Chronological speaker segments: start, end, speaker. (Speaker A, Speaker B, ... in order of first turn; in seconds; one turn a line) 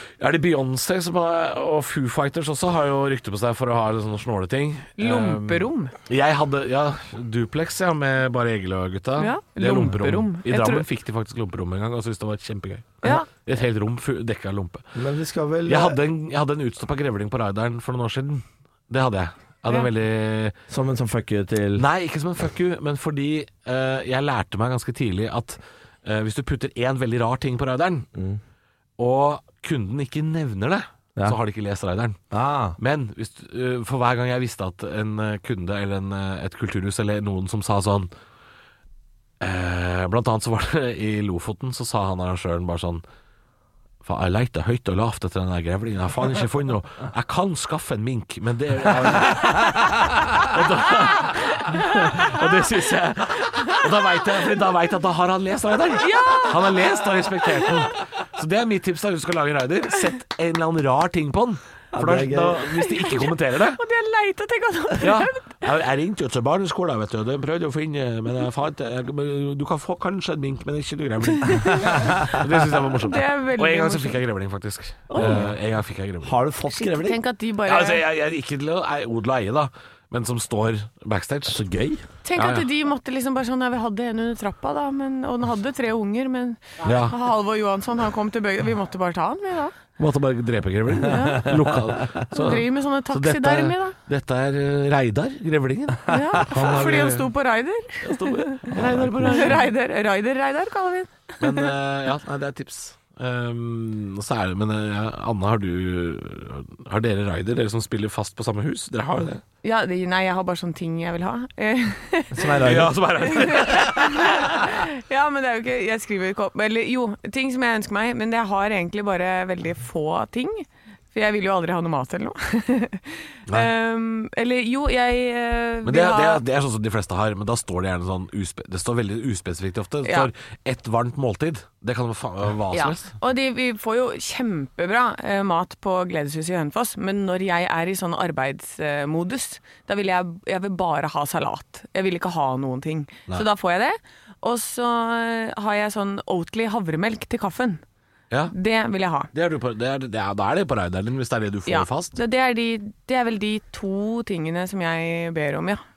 Speaker A: 0.2-14.8
Speaker B: 5.0-5.9
Speaker B: 9.2-10.8
Speaker B: 13.0-13.3
Speaker C: 14.9-16.0
Speaker A: 15.7-20.6
Speaker C: 20.7-21.8
Speaker A: 21.8-28.1
Speaker C: 28.1-28.4
Speaker A: 29.0-32.2
Speaker C: 32.3-32.8
Speaker A: 32.8-38.1
Speaker A: 39.4-43.0
Speaker A: 44.0-63.8
Speaker B: 56.0-56.8
Speaker C: 61.9-62.7
Speaker B: 62.8-65.6
Speaker A: 65.0-76.4
Speaker B: 71.5-74.2
Speaker C: 75.1-75.5
Speaker B: 75.2-75.4
Speaker C: 76.2-77.2
Speaker B: 76.7-78.0
Speaker A: 77.7-81.6
Speaker C: 81.5-82.0
Speaker B: 82.2-89.8
Speaker A: 82.3-82.7
Speaker A: 86.8-87.2
Speaker A: 90.0-97.3
Speaker B: 91.0-91.6
Speaker B: 92.3-94.0
Speaker B: 96.1-101.7
Speaker A: 98.0-99.7
Speaker C: 98.7-99.5
Speaker A: 101.4-109.4
Speaker B: 109.6-126.4
Speaker C: 112.3-113.0
Speaker A: 112.5-114.6
Speaker A: 123.5-123.7
Speaker A: 125.8-133.1
Speaker B: 130.1-130.3
Speaker B: 132.7-147.8
Speaker B: 148.5-149.3
Speaker A: 149.3-152.2
Speaker B: 151.7-155.8